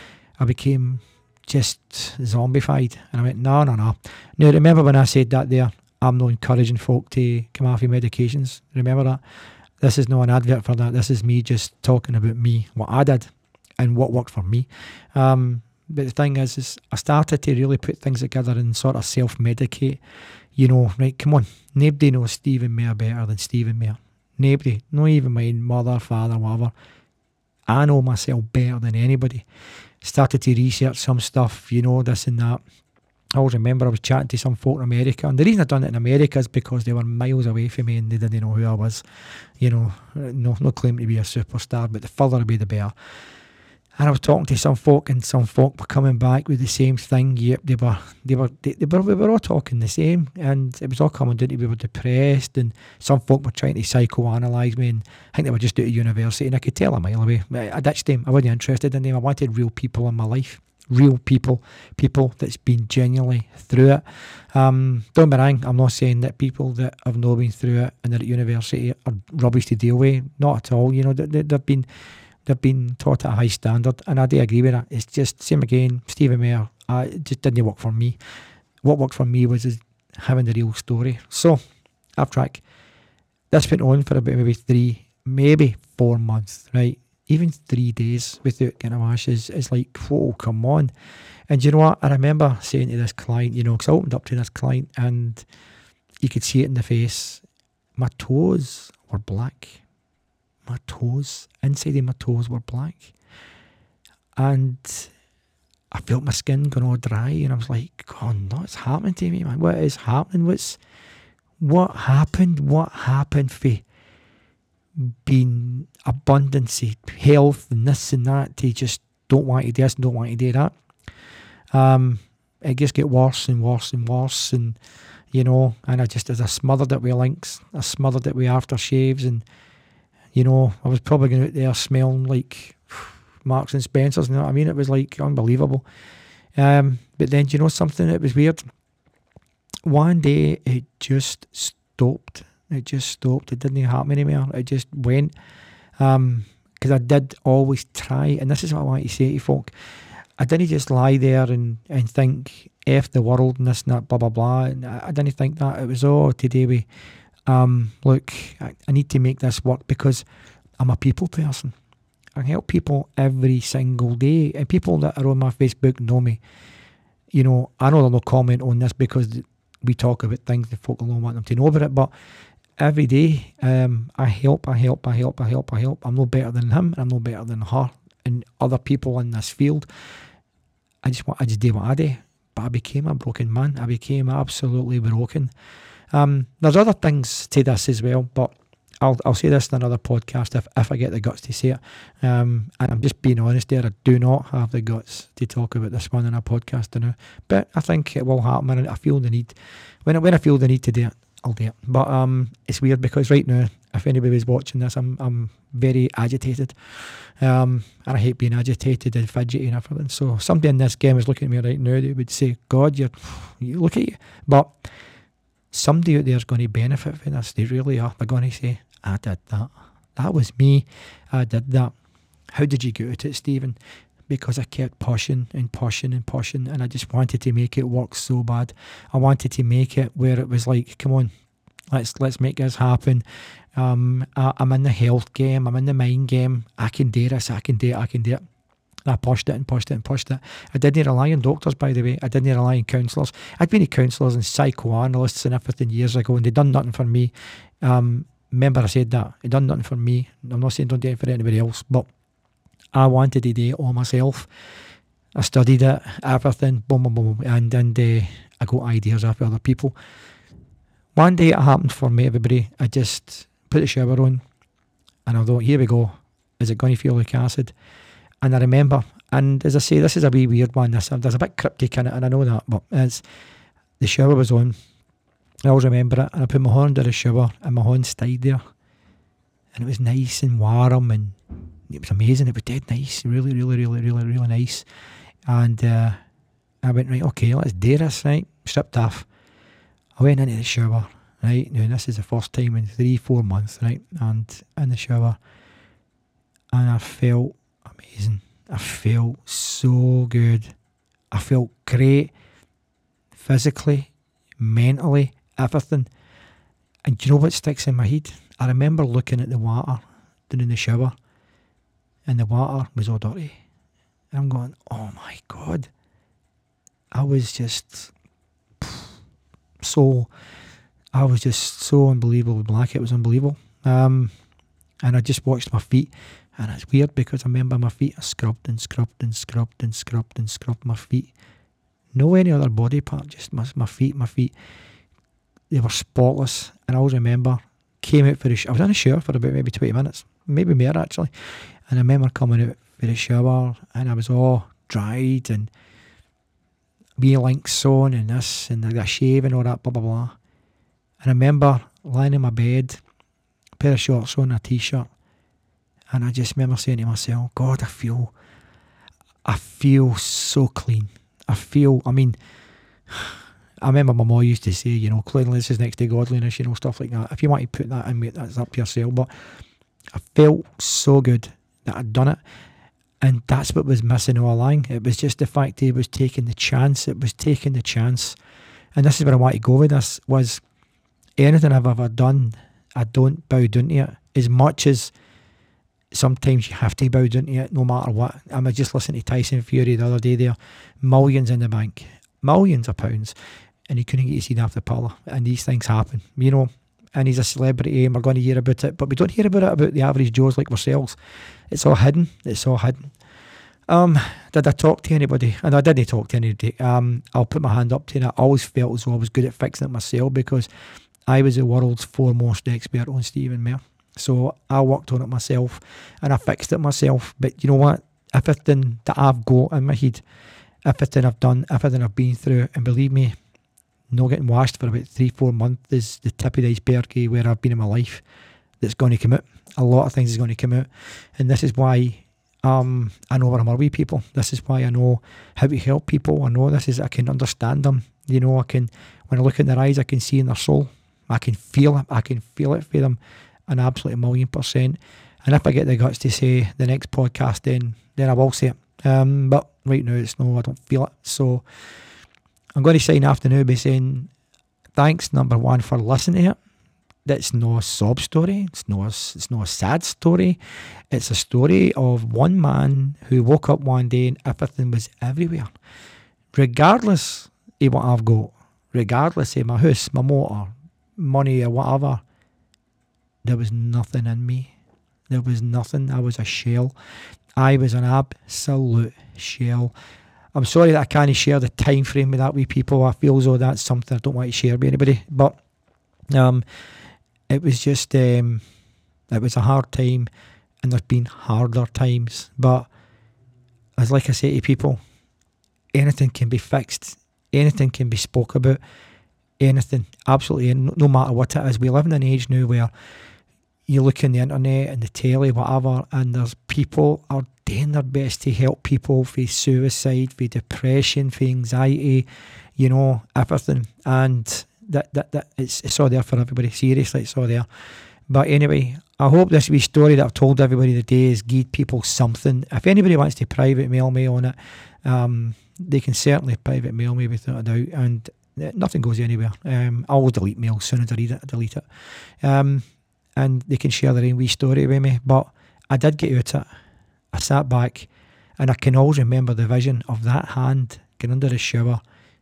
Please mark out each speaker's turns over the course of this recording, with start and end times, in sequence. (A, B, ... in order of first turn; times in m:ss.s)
0:00.4-0:09.2 A
0:09.8-0:20.0 A
0:20.6-0:26.7 A
0:27.7-0:29.4 A
0:30.0-0:32.6 A
0:33.3-0:39.0 A
0:39.6-0:42.9 A
0:44.0-1:11.9 A
1:12.4-1:18.2 A
1:18.8-1:21.6 A
1:22.2-1:22.6 A
1:23.5-1:30.9 A
1:31.5-1:35.4 A
1:36.2-1:37.4 A
1:38.0-1:39.8 A
1:40.6-1:43.1 A
1:44.4-1:45.1 A
1:45.9-1:50.8 A
1:51.6-1:53.8 A
1:55.0-2:00.7 A
2:01.7-2:04.8 A
2:05.3-2:09.4 A
2:10.3-2:15.8 A
2:16.5-2:18.6 A
2:19.8-2:25.3 A
2:26.0-2:29.7 A
2:30.4-2:36.8 A
2:37.4-2:40.2 A
2:40.8-2:41.7 A
2:42.4-2:46.4 A
2:47.3-2:52.1 A
2:52.8-2:59.9 A
3:01.0-3:05.5 A
3:06.1-3:34.9 A
3:35.7-3:41.9 A
3:42.5-3:43.8 A
3:44.3-3:51.3 A
3:51.9-3:53.2 A
3:53.7-3:58.4 A
3:59.0-4:12.1 A
4:12.9-4:14.5 A
4:15.3-4:19.9 A
4:21.1-4:24.4 A
4:25.2-4:27.7 A
4:28.4-4:33.2 A
4:34.0-4:34.7 A
4:35.6-4:38.6 A
4:39.7-4:41.4 A
4:41.9-4:44.8 A
4:45.4-4:46.2 A
4:46.8-4:49.3 A
4:50.2-4:55.4 A
4:56.7-5:00.7 A
5:01.3-5:02.3 A
5:03.3-5:06.1 A
5:07.0-5:11.2 A
5:12.2-5:13.6 A
5:14.3-5:15.9 A
5:17.1-5:18.1 A
5:19.8-5:20.3 A
5:21.1-5:24.3 A
5:25.0-5:31.3 A
5:32.1-5:34.5 A
5:35.7-5:41.3 A
5:41.9-5:45.7 A
5:47.2-5:50.4 A
5:51.2-5:53.0 A
5:53.8-5:55.1 A
5:56.1-5:58.3 A
5:59.4-6:02.4 A
6:03.1-6:09.3 A
6:10.1-6:12.4 A
6:13.2-6:18.4 A
6:18.9-6:20.6 A
6:21.4-6:25.1 A
6:26.1-6:33.3 A
6:33.9-6:41.2 A
6:41.7-6:43.1 A
6:43.9-6:50.7 A
6:51.2-7:00.2 A
7:00.8-7:03.3 A
7:04.1-7:08.2 A
7:08.8-7:31.6 A
7:32.8-7:34.3 A
7:34.9-7:36.6 A
7:37.2-7:40.6 A
7:41.1-7:45.7 A
7:46.5-7:52.2 A
7:53.4-7:54.7 A
7:55.3-7:56.9 A
7:57.6-7:59.9 A
8:00.5-8:05.6 A
8:06.3-8:06.6 A
8:07.5-8:08.6 A
8:09.3-8:10.3 A
8:10.8-8:12.9 A
8:14.0-8:15.0 A
8:15.9-8:18.8 A
8:19.6-8:22.9 A
8:23.9-8:32.3 A
8:32.8-8:37.7 A
8:38.3-8:52.8 A
8:53.4-8:56.7 A
8:57.3-9:02.0 A